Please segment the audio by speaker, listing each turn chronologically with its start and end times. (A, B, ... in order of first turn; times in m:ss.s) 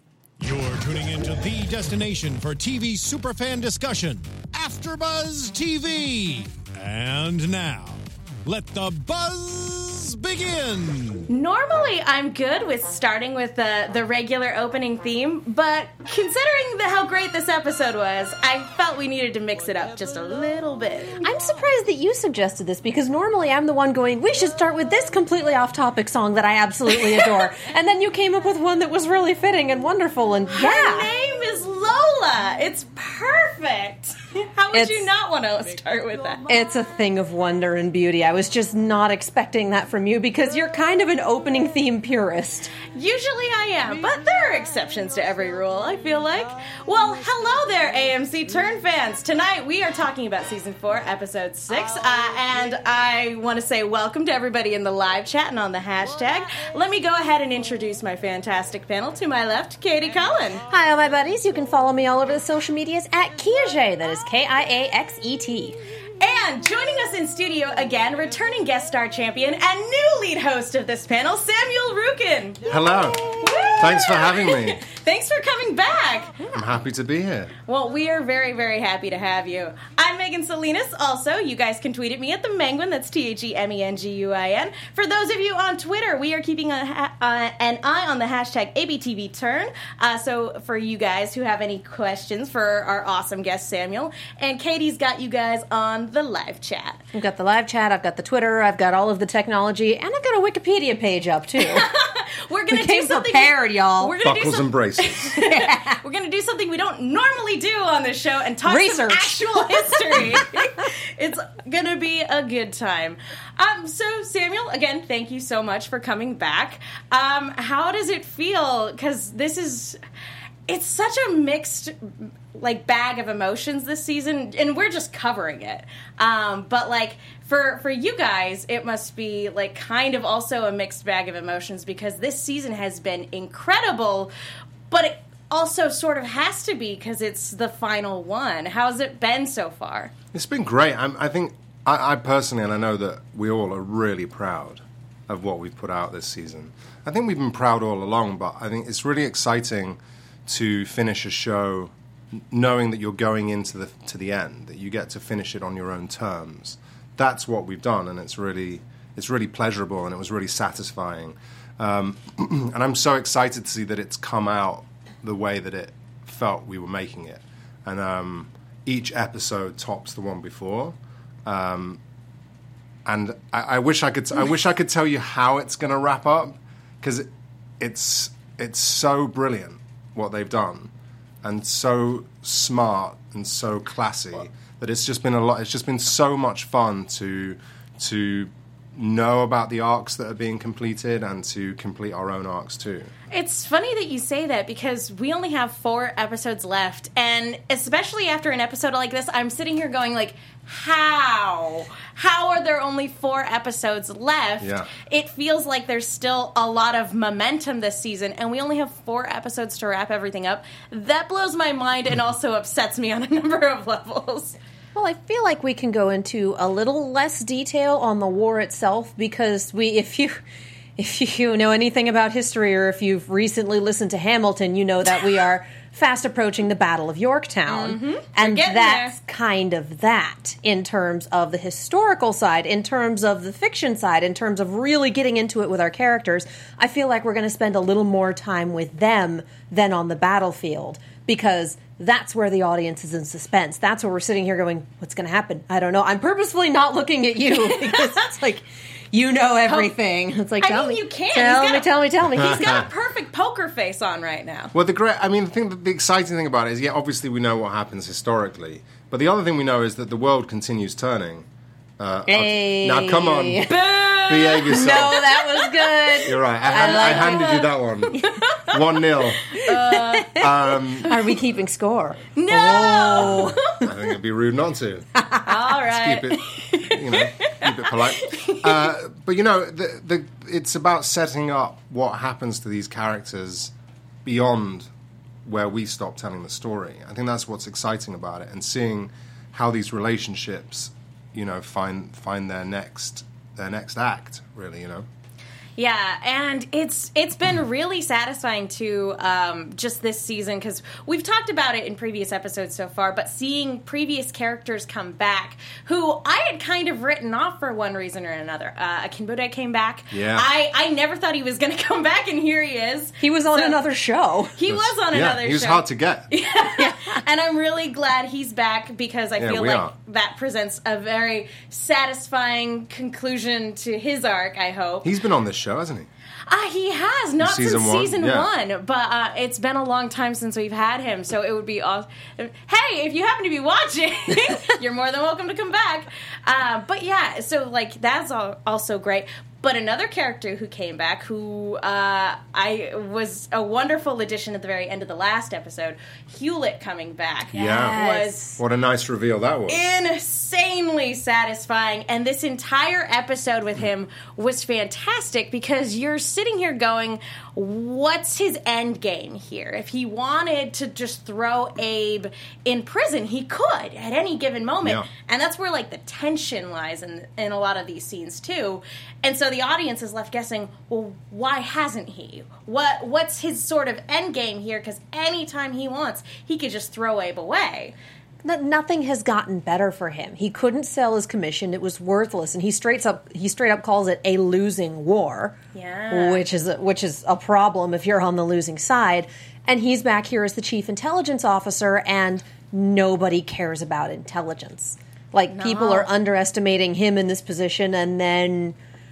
0:00.4-0:11.3 A
0:11.3-0:21.2 B
0:21.2-0:31.1 C
0:30.5-0:36.5 B
0:34.7-0:35.1 C
0:36.5-0:42.7 C
0:42.9-1:00.6 B
1:00.7-1:05.8 C
1:06.2-1:16.5 B
1:12.7-1:14.8 D
1:16.5-1:17.5 D
1:17.6-1:37.0 B
1:37.1-1:41.9 C
1:41.6-2:00.0 B
1:42.7-1:44.2 C
1:44.2-1:45.3 D
1:45.4-1:46.0 C
1:48.7-1:50.4 C
2:00.7-2:14.3 B
2:14.9-2:20.1 B
2:20.3-2:50.9 D
2:51.5-2:52.0 D
2:53.0-2:57.3 D
2:57.8-3:00.9 D
3:01.4-3:13.1 D
3:13.3-3:34.6 B
3:24.6-3:24.9 D
3:34.9-3:40.4 C
3:41.0-4:12.9 C
3:47.7-3:49.2 B
4:07.6-4:08.1 B
4:09.7-4:09.9 B
4:10.6-4:14.7 B
4:12.4-4:12.8 D
4:14.7-4:21.4 D
4:22.0-4:25.2 D
4:22.2-4:23.7 C
4:23.6-4:28.7 B
4:24.7-4:28.3 C
4:26.2-4:29.6 D
4:29.5-4:30.5 B
4:29.7-4:30.2 C
4:30.3-4:31.2 D
4:31.0-4:33.9 C
4:32.4-4:33.9 B
4:33.3-4:35.2 D
4:35.2-4:35.4 C
4:35.4-4:38.9 B
4:35.8-4:43.7 D
4:44.2-4:44.9 D
4:45.4-4:55.0 D
4:55.8-5:13.8 B
5:10.1-5:10.4 D
5:13.2-5:14.6 C
5:14.6-5:25.1 B
5:14.7-5:16.3 D
5:16.8-5:17.2 C
5:19.4-5:19.9 D
5:25.0-5:26.1 D
5:26.5-5:48.5 B
5:27.4-5:28.5 D
5:47.5-5:48.6 C
5:47.5-5:48.0 D
5:48.6-5:49.8 D
5:49.7-6:17.9 B
6:18.4-6:25.6 C
6:25.7-6:26.5 B
6:26.1-6:38.8 C
6:35.5-6:36.1 B